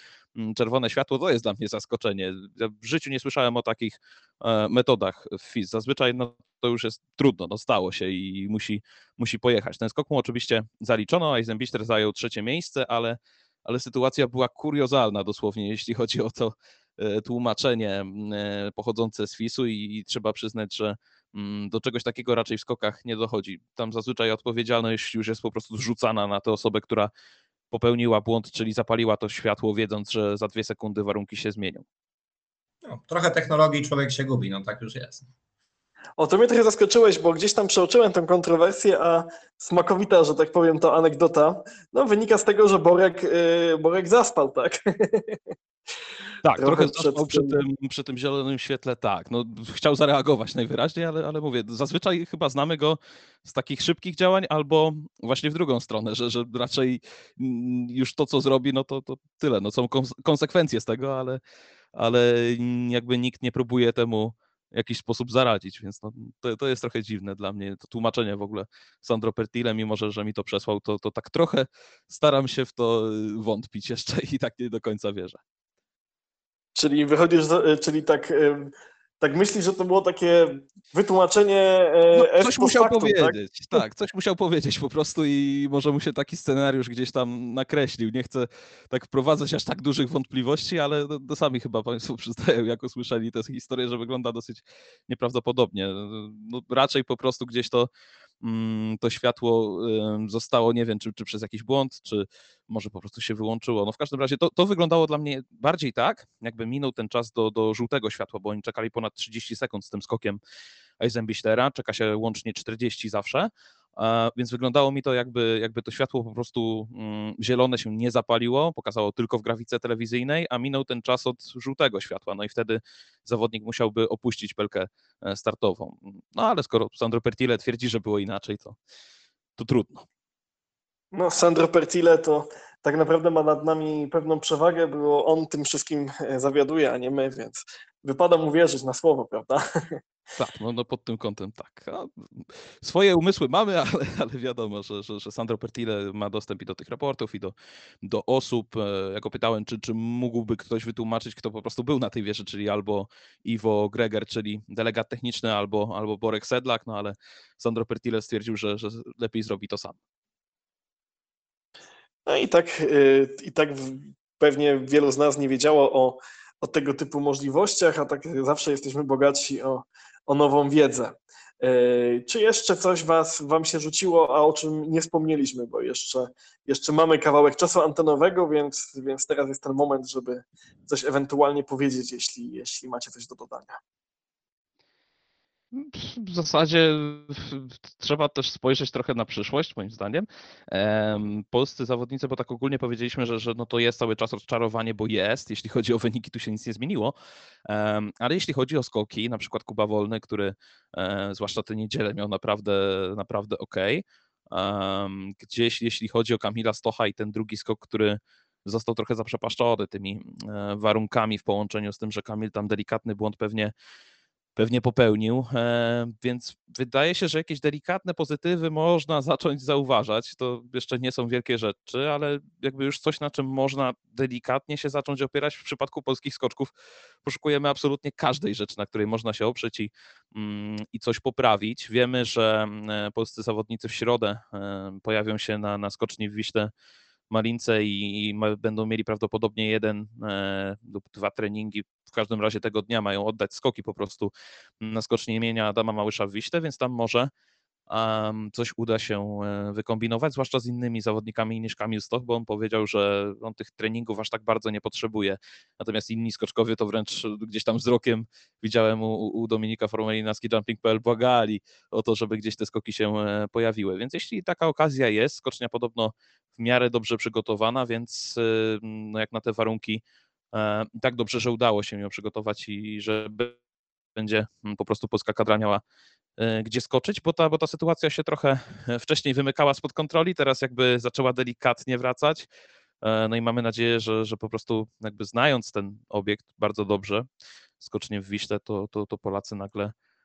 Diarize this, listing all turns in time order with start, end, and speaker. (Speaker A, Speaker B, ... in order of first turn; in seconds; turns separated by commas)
Speaker A: 0.4-27.1, Speaker A: 27.7-31.9, Speaker B: 32.9-35.3, Speaker C: 36.2-45.4, Speaker A: 46.4-61.4, Speaker C: 46.6-47.6, Speaker A: 62.0-75.4, Speaker C: 76.8-83.8, Speaker A: 82.2-97.9, Speaker A: 98.4-110.4, Speaker A: 111.0-128.8, Speaker A: 129.6-130.1, Speaker C: 131.1-140.0, Speaker A: 140.4-160.0, Speaker C: 162.3-183.8, Speaker A: 185.7-197.1, Speaker A: 197.7-213.7, Speaker A: 214.6-226.7, Speaker A: 227.2-236.7, Speaker A: 237.3-247.3, Speaker A: 247.9-270.0, Speaker A: 270.5-273.6, Speaker A: 274.2-275.8, Speaker A: 276.4-282.5, Speaker A: 283.0-287.3, Speaker A: 287.8-289.9